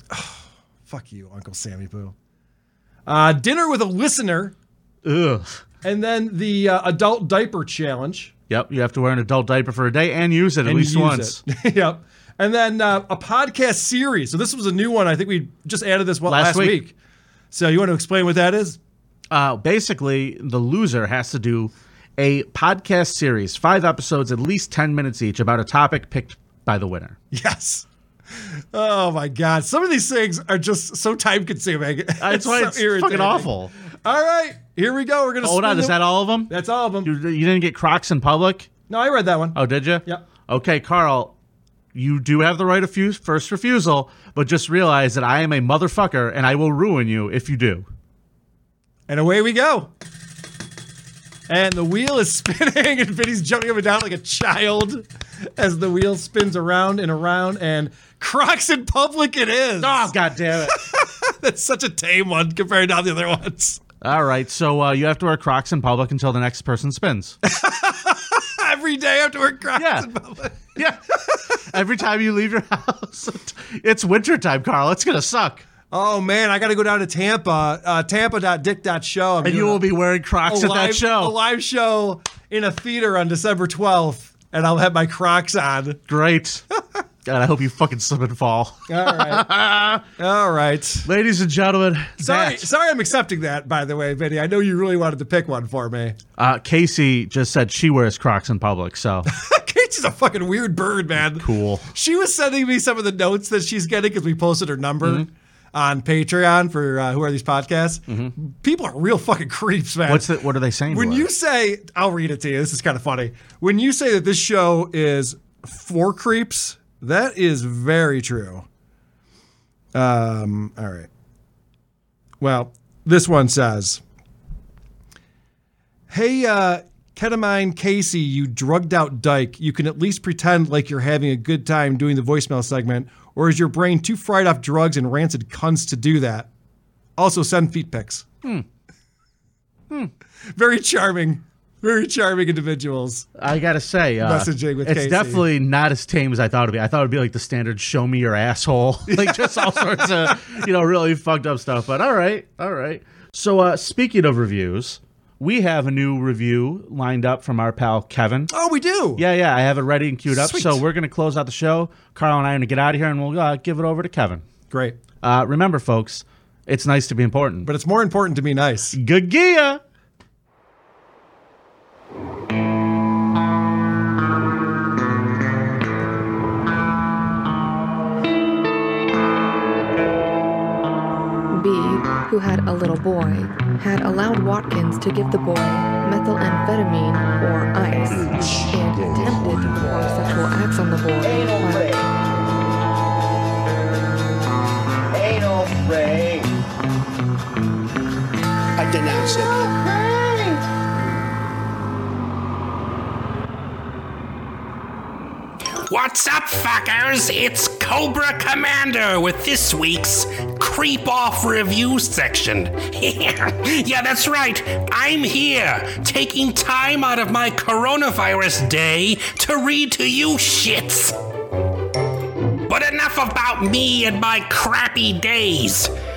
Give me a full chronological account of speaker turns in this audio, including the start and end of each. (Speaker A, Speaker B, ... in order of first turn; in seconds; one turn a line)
Speaker A: 0.1-2.1
Speaker A: 3.1-4.5
Speaker B: 5.0-5.6
Speaker A: 5.8-8.3
Speaker B: 8.5-11.4
Speaker A: 10.7-16.9
Speaker B: 16.3-16.8
Speaker A: 17.5-18.8
Speaker B: 19.3-27.2
Speaker A: 27.3-27.9
Speaker A: 28.7-33.5
Speaker B: 32.2-33.7
Speaker A: 34.0-36.0
Speaker B: 35.4-36.5
Speaker A: 36.5-37.1
Speaker B: 37.0-38.7
Speaker A: 38.9-40.2
Speaker B: 39.5-41.4
Speaker B: 41.9-47.9
Speaker A: 49.1-49.9
Speaker A: 51.5-55.0
Speaker A: 55.6-60.1
Speaker B: 59.8-60.8
Speaker A: 60.7-63.8
Speaker B: 64.0-67.4
Speaker A: 67.4-70.7
Speaker B: 69.8-70.1
Speaker B: 70.8-71.0
Speaker B: 71.7-75.7
Speaker A: 75.9-79.8
Speaker B: 79.4-81.4
Speaker A: 80.5-86.0
Speaker B: 86.1-86.6
Speaker B: 87.3-90.0
Speaker A: 88.9-89.5
Speaker A: 90.2-91.1
Speaker B: 91.1-92.7
Speaker A: 92.2-96.2
Speaker B: 96.4-99.3
Speaker A: 99.3-110.3
Speaker B: 101.4-101.9
Speaker B: 105.0-105.3
Speaker B: 110.1-111.3
Speaker A: 110.9-118.7
Speaker A: 119.9-121.1
Speaker A: 122.4-124.0
Speaker A: 126.1-136.5
Speaker A: 137.2-138.3
Speaker A: 140.6-143.3
Speaker B: 143.4-158.5
Speaker A: 144.2-145.4
Speaker A: 149.1-150.4
Speaker A: 158.5-159.2
Speaker B: 159.2-164.4
Speaker A: 160.3-160.8
Speaker A: 164.7-165.0
Speaker B: 165.2-167.7
Speaker A: 167.7-169.0
Speaker B: 168.9-169.8
Speaker C: 181.5-191.9
Speaker D: 191.2-192.1
Speaker D: 195.1-196.6
Speaker D: 198.8-200.6
Speaker E: 205.9-221.2
Speaker E: 222.7-225.9